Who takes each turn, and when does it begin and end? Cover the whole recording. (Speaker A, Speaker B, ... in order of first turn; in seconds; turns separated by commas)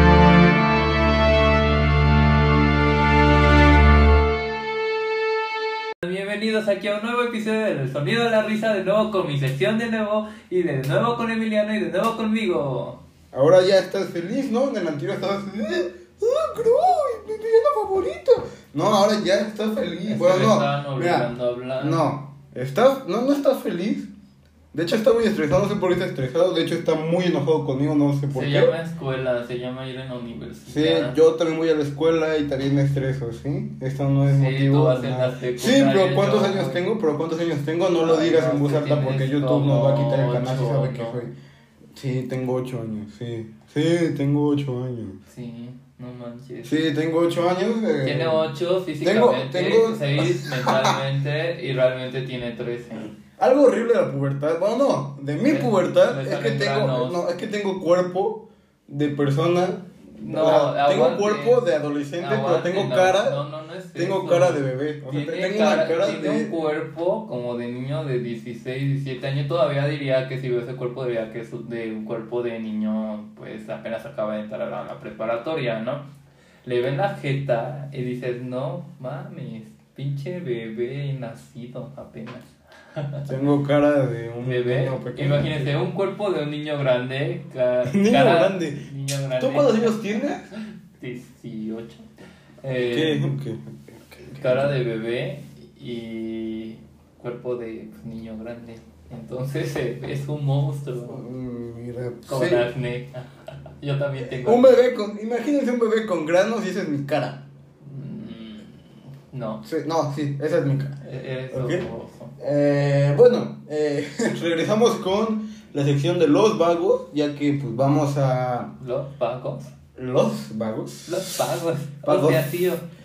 Speaker A: 6.0-13.0, Speaker B: 13.3-21.3, Speaker A: 20.1-22.0, Speaker B: 21.8-24.1, Speaker B: 24.7-28.7, Speaker A: 28.3-31.2, Speaker B: 30.7-41.3, Speaker A: 34.3-36.8, Speaker A: 38.0-41.2, Speaker B: 42.0-45.2, Speaker A: 45.3-46.8, Speaker B: 46.6-48.4, Speaker A: 48.0-53.1, Speaker B: 49.0-51.0, Speaker B: 53.4-63.4, Speaker A: 55.4-57.2, Speaker A: 60.2-61.6, Speaker A: 62.2-76.1, Speaker B: 64.0-66.5, Speaker A: 76.6-83.3, Speaker B: 83.3-85.7, Speaker A: 84.5-92.1, Speaker B: 87.8-90.5, Speaker A: 92.6-93.3, Speaker B: 92.8-94.7, Speaker A: 94.4-101.2, Speaker B: 101.1-102.7, Speaker A: 102.3-104.8, Speaker B: 104.2-107.4, Speaker A: 107.8-108.8, Speaker A: 109.3-109.6, Speaker B: 109.6-111.0, Speaker A: 111.0-112.3, Speaker B: 111.5-111.8, Speaker B: 112.4-118.7, Speaker A: 118.8-119.7, Speaker B: 120.0-121.4, Speaker A: 121.1-122.8, Speaker B: 122.0-122.5